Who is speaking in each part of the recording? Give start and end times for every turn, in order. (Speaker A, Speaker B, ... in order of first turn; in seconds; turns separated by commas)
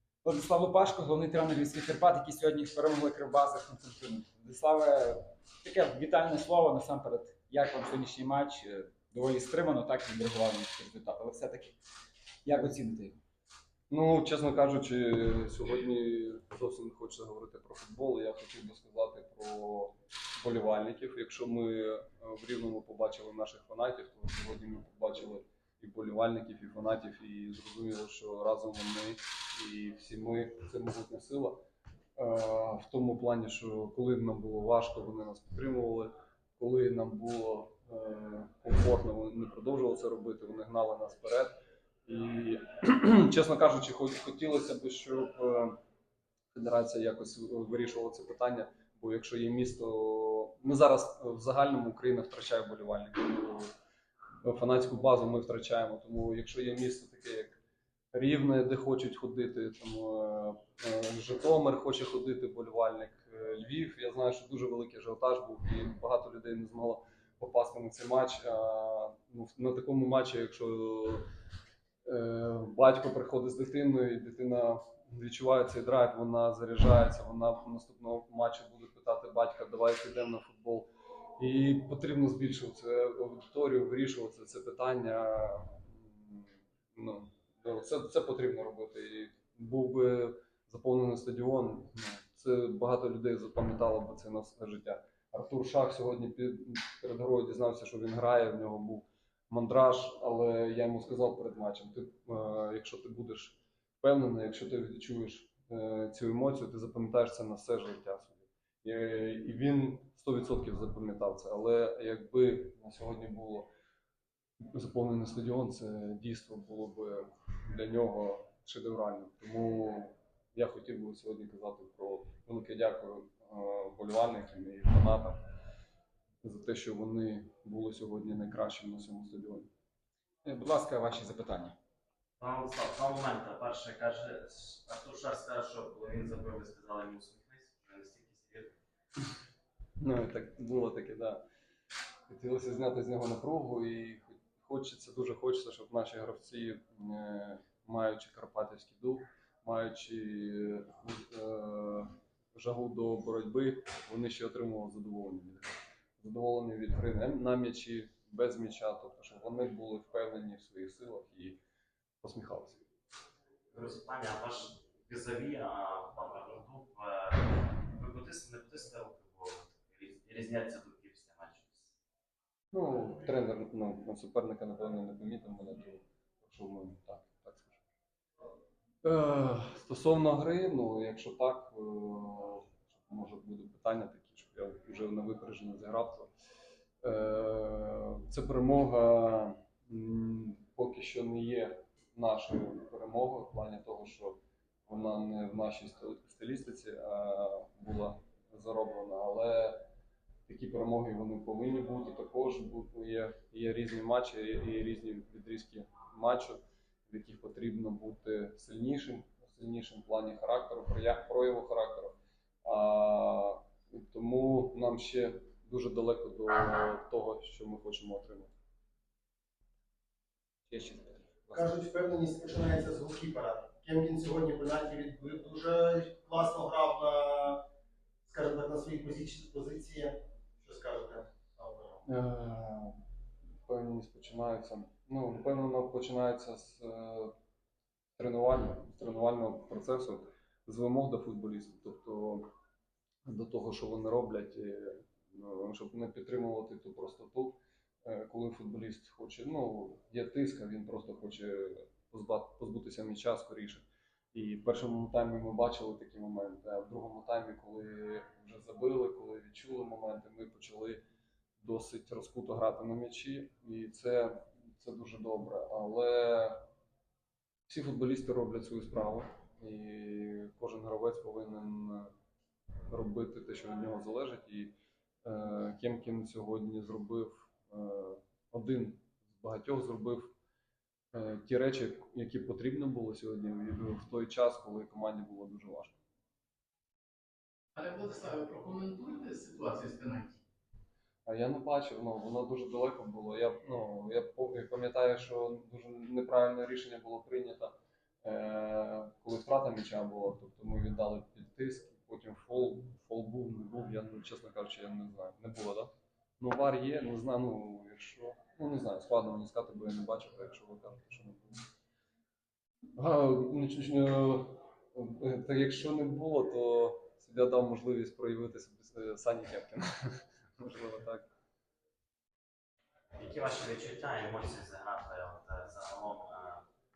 Speaker A: 0.2-11.8, Speaker A: 12.4-13.2, Speaker B: 13.9-31.6, Speaker B: 32.2-41.5, Speaker B: 42.0-45.8, Speaker B: 46.5-53.7, Speaker B: 54.4-57.6, Speaker B: 58.1-71.2, Speaker B: 72.0-113.7, Speaker B: 114.6-125.4, Speaker B: 126.4-129.7, Speaker A: 130.4-131.7, Speaker C: 132.4-138.7, Speaker B: 140.0-141.4, Speaker B: 142.3-161.6, Speaker B: 162.2-162.8, Speaker C: 163.7-171.9, Speaker B: 172.7-177.8, Speaker B: 179.0-186.3, Speaker B: 187.0-199.9, Speaker B: 200.5-218.5, Speaker A: 220.7-221.5, Speaker D: 221.5-227.7, Speaker D: 228.2-232.0, Speaker B: 232.0-233.0, Speaker B: 233.7-237.3, Speaker B: 238.2-242.5, Speaker B: 243.2-261.0, Speaker B: 261.6-266.7, Speaker B: 267.7-272.1, Speaker B: 272.9-280.3, Speaker B: 281.1-286.0, Speaker E: 287.8-290.4, Speaker B: 291.2-311.6, Speaker B: 312.9-321.3, Speaker C: 323.1-326.6